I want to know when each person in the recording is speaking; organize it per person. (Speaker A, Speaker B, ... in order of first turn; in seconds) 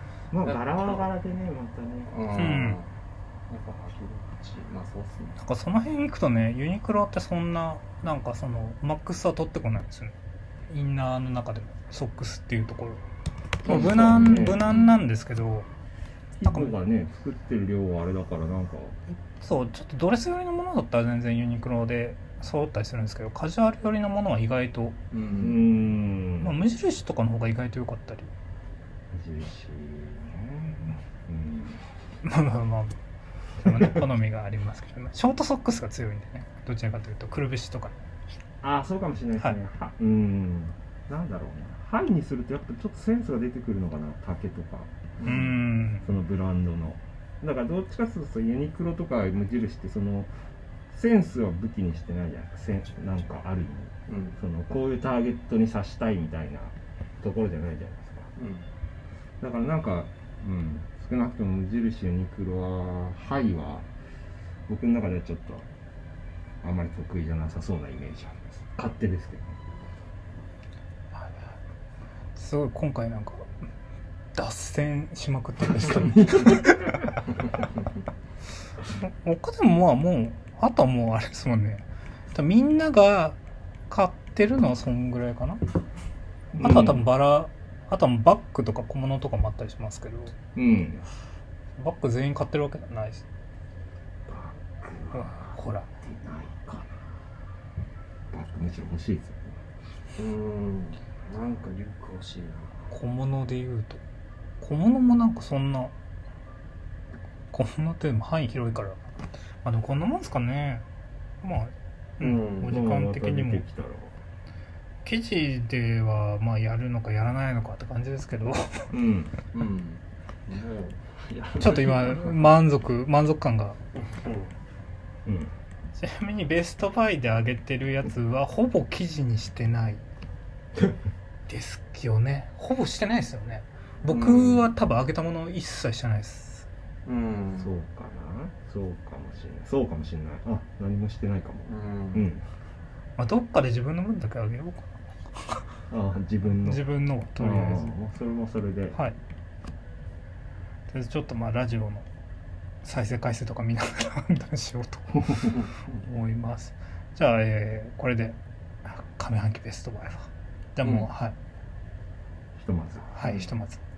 Speaker A: 0.3-2.1, 13.6-14.7, 16.4-19.0, 25.4-26.6, 29.1-31.8, 33.7-34.0, 38.6-50.3, 50.9-58.3, 59.4-63.9, 64.7-65.7, 66.6-69.6, 86.5-87.0, 90.5-91.0, 94.3-97.0, 98.3-99.6, 112.6-114.2, 118.9-119.3, 125.2-125.5, 137.6-142.4, 145.9-149.0, 162.6-163.1
Speaker B: 0.4-1.1, 2.1-2.9, 3.5-5.4, 13.9-15.0, 25.1-25.7, 45.2-45.5, 54.1-54.4, 58.4-58.7, 100.2-102.9, 112.2-112.8, 119.5-122.6, 124.2-124.5, 134.0-134.7, 137.1-137.7, 141.7-142.3, 160.8-161.1, 163.2-163.5
Speaker C: 2.3-2.8, 5.4-10.1, 10.7-13.0, 13.6-15.7, 16.4-16.8, 19.1-24.9, 26.4-28.3, 32.2-32.9, 33.6-37.9, 45.2-46.1, 71.1-71.5, 72.3-73.4, 74.3-77.0, 79.0-83.4, 83.9-85.6, 86.6-90.3, 91.8-93.2, 95.1-95.9, 102.9-104.0, 104.6-105.9, 107.5-109.0, 109.6-110.8, 111.4-113.6, 115.0-118.9, 121.6-123.8, 125.9-130.0, 131.5-136.7, 143.2-145.6, 146.6-147.9, 150.9-152.1, 152.8-161.3, 163.1-163.8